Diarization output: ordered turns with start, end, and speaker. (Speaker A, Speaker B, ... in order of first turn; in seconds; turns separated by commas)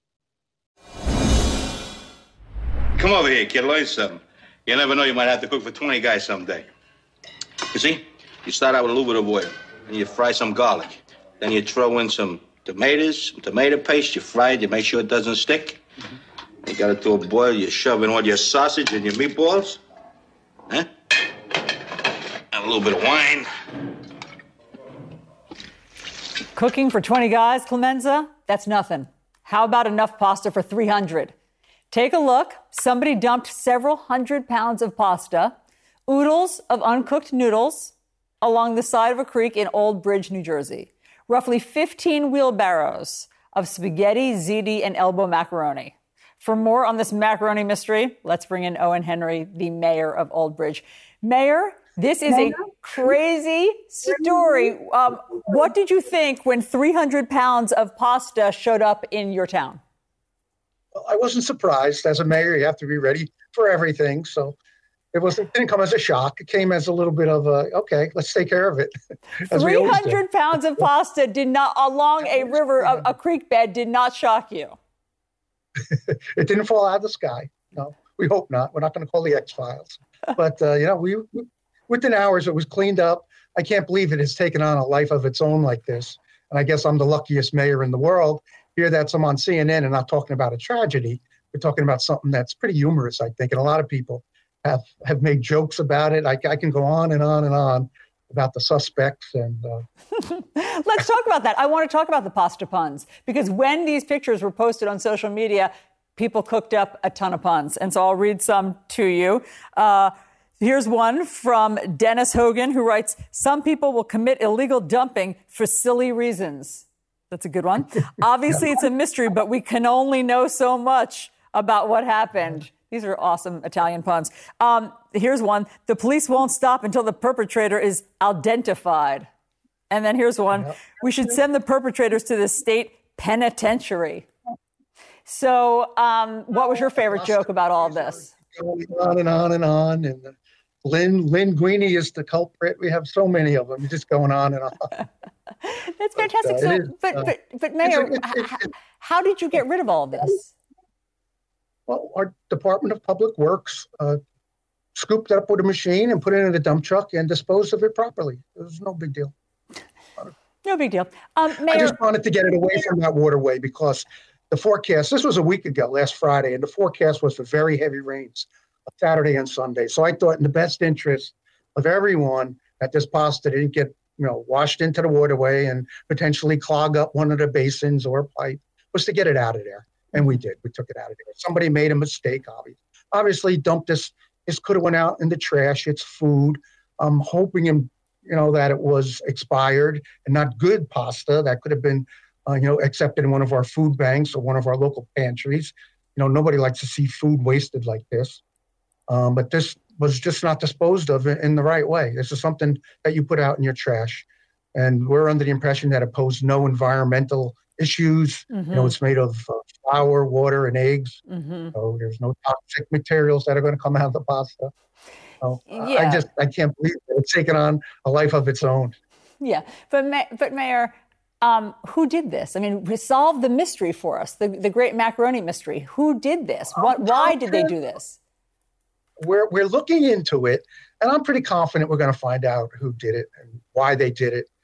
Speaker A: 3.0-6.7, Speaker A: 7.7-15.8, Speaker A: 16.6-19.8, Speaker A: 22.5-23.5, Speaker B: 26.6-31.3, Speaker B: 31.9-35.5, Speaker B: 36.1-59.8, Speaker C: 61.0-64.5, Speaker C: 65.1-68.9, Speaker C: 69.5-70.2, Speaker B: 69.5-74.8, Speaker C: 75.9-99.8, Speaker B: 100.2-129.3, Speaker B: 129.9-134.3, Speaker B: 135.3-138.3, Speaker C: 136.7-144.9, Speaker B: 146.0-150.5, Speaker C: 146.2-147.3, Speaker C: 147.8-148.7, Speaker C: 151.9-154.2, Speaker C: 154.9-159.3, Speaker B: 160.7-162.0, Speaker C: 161.7-198.4, Speaker C: 199.1-211.2, Speaker B: 208.5-209.0, Speaker B: 211.3-211.7, Speaker C: 211.7-214.7, Speaker C: 215.4-219.0, Speaker B: 215.7-216.3, Speaker B: 219.4-228.2, Speaker C: 226.8-227.7, Speaker C: 229.2-234.5